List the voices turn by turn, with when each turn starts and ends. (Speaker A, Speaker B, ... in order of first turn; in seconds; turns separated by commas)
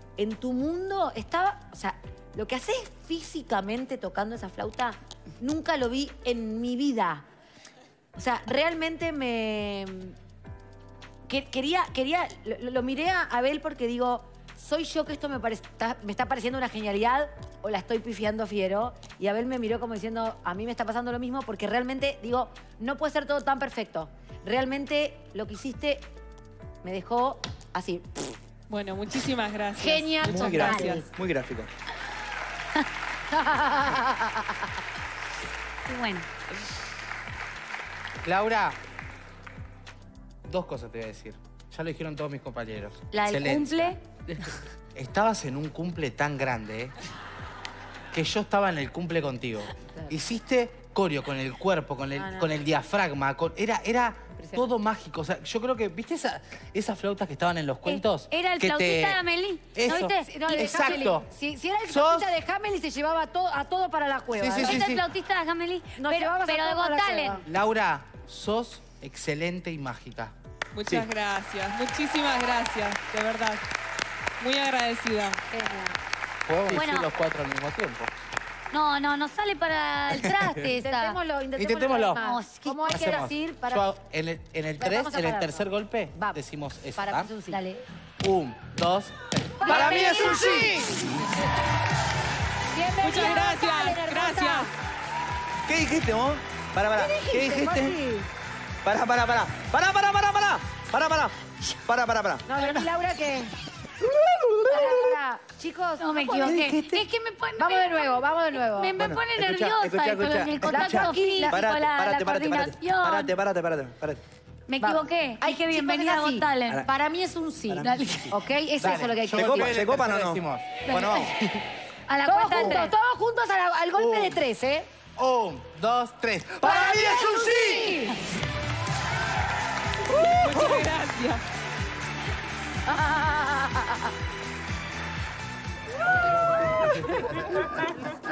Speaker A: 0.2-7.2, Speaker A: 8.1-10.2, Speaker A: 11.3-26.1, Speaker A: 26.8-28.4, Speaker B: 28.7-31.1, Speaker A: 29.8-31.0, Speaker C: 30.2-31.7, Speaker A: 33.3-34.6, Speaker D: 35.9-36.3, Speaker E: 38.2-38.8, Speaker E: 40.4-44.0, Speaker D: 43.1-44.0, Speaker E: 44.9-47.0, Speaker E: 48.1-59.2, Speaker A: 52.1-52.6, Speaker A: 54.4-54.7, Speaker D: 57.8-60.3, Speaker E: 59.7-61.3, Speaker A: 59.9-64.9, Speaker E: 61.9-62.3, Speaker E: 64.3-65.0, Speaker D: 64.6-67.4, Speaker A: 66.0-67.4, Speaker E: 67.4-70.3, Speaker B: 70.7-73.6, Speaker B: 74.4-75.4, Speaker A: 75.5-76.0, Speaker E: 76.5-78.1, Speaker D: 76.7-77.1, Speaker D: 78.7-81.2, Speaker A: 80.7-83.9, Speaker E: 81.5-82.2, Speaker D: 82.1-82.9, Speaker E: 82.8-87.3, Speaker A: 84.8-86.4, Speaker A: 87.0-87.6, Speaker D: 87.5-87.8, Speaker E: 88.2-90.6, Speaker A: 89.6-91.2, Speaker C: 89.7-90.9, Speaker A: 92.7-94.7, Speaker B: 93.0-94.7, Speaker C: 95.6-98.0, Speaker A: 96.9-98.3, Speaker C: 98.8-101.3, Speaker C: 101.8-102.6, Speaker A: 102.5-103.5, Speaker C: 104.2-105.0, Speaker A: 104.7-106.7, Speaker D: 106.0-113.3, Speaker C: 106.4-107.0, Speaker A: 107.6-108.9, Speaker C: 109.0-114.2, Speaker A: 110.7-111.6, Speaker D: 114.7-116.8, Speaker A: 114.8-119.7, Speaker C: 117.7-118.4, Speaker D: 117.8-118.3, Speaker E: 118.8-120.8, Speaker C: 119.3-121.3, Speaker D: 120.9-121.2, Speaker D: 122.1-122.9, Speaker A: 122.2-124.9, Speaker E: 124.0-124.4, Speaker E: 125.2-127.6, Speaker A: 126.6-128.2, Speaker C: 126.9-127.8, Speaker B: 130.2-131.4, Speaker A: 132.9-133.9, Speaker B: 136.8-137.9